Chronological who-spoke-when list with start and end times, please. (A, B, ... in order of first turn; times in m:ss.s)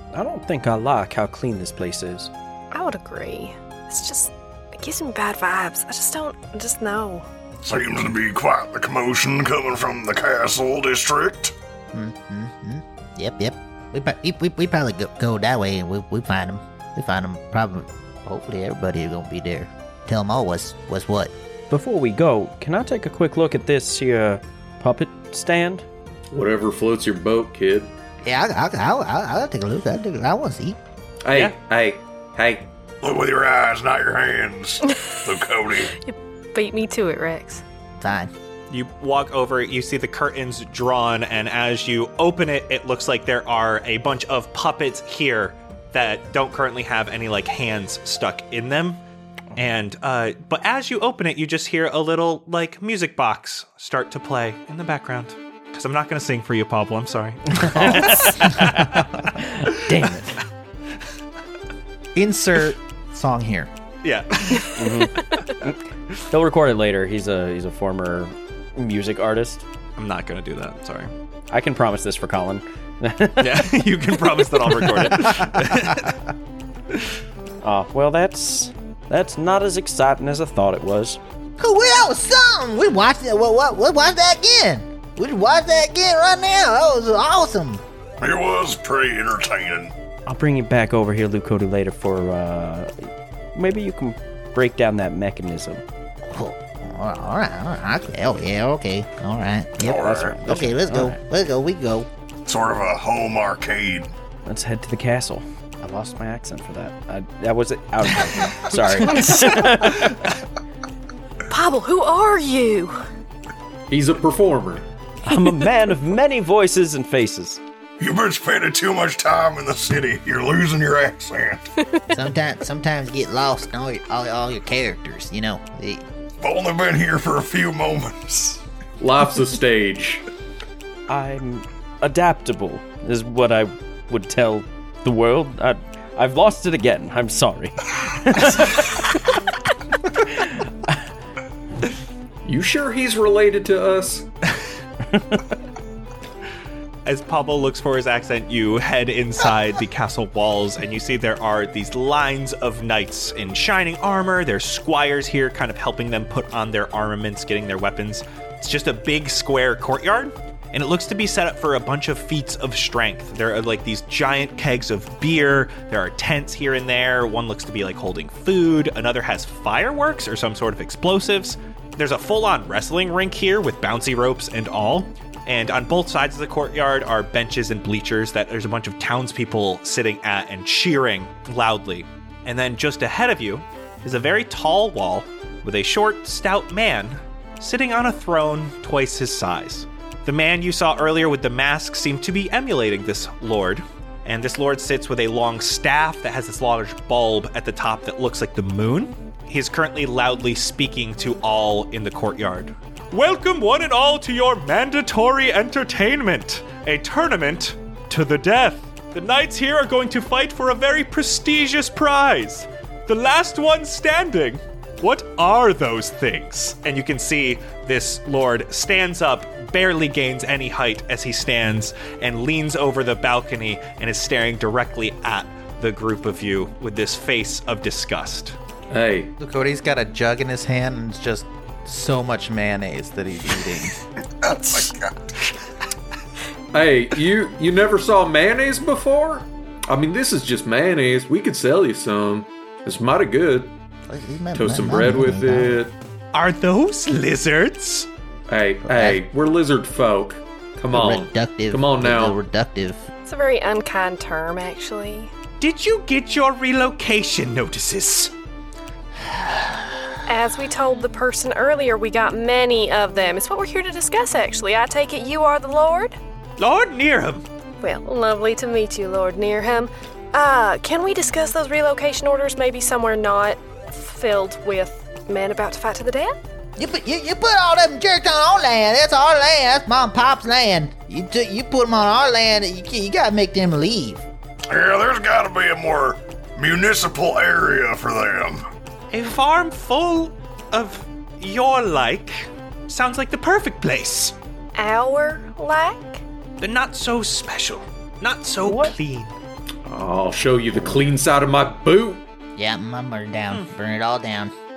0:00.1-0:02.3 A
0:02.7-0:07.3 B
0:07.6-0:11.5 C
0:11.9-0:21.3 D
0:21.7-0:25.8 A
0:26.3-0:27.9 E
0:28.2-0:30.8 D
0:31.2-0:32.7 E
0:33.0-0:35.9 C
0:35.9-0:37.6 B
0:38.0-0:38.3 D
0:38.7-0:49.0 F
0:49.6-0:58.8 F
0:57.6-1:00.4 A
1:02.2-1:03.7 G
1:04.0-1:04.9 F
1:04.8-1:05.8 A
1:06.3-1:09.6 A
1:10.0-1:11.1 F
1:11.5-1:13.7 A
1:13.4-1:16.2 F
1:15.4-1:16.0 G
1:17.6-1:21.2 A
1:21.6-1:27.8 D
1:28.2-1:29.9 C
1:30.3-1:35.8 A
1:36.2-1:42.1 D
1:39.8-1:40.3 C
1:40.0-1:41.2 A
1:42.5-1:44.1 C
1:44.5-1:50.2 A
1:51.5-1:53.0 B
1:53.9-1:54.9 E
1:55.2-1:57.6 A
1:58.0-2:01.6 C
2:02.1-2:06.0 D
2:06.4-2:08.6 C
2:09.0-2:10.2 E
2:11.1-2:19.1 A
2:20.2-2:21.0 A
2:22.4-2:24.3 E
2:25.1-2:25.4 A
2:27.0-3:48.6 F
3:48.9-3:49.3 E
3:49.4-3:54.0 G
3:54.5-3:55.1 C
3:56.7-4:03.7 E
4:04.1-4:05.8 D
4:04.5-4:05.9 E
4:06.3-4:08.1 F
4:08.5-4:12.4 E
4:08.8-4:09.2 D
4:10.9-4:13.1 D
4:13.2-4:15.3 B
4:15.6-4:18.3 F
4:20.3-4:26.2 B
4:26.6-4:27.4 F
4:27.8-4:36.4 B
4:36.8-4:44.2 D
4:44.7-4:48.6 C
4:49.1-4:54.4 F
4:54.8-4:56.2 B
4:56.6-4:59.3 F
4:58.6-4:59.0 A
4:59.9-5:02.2 E
5:02.6-5:04.5 D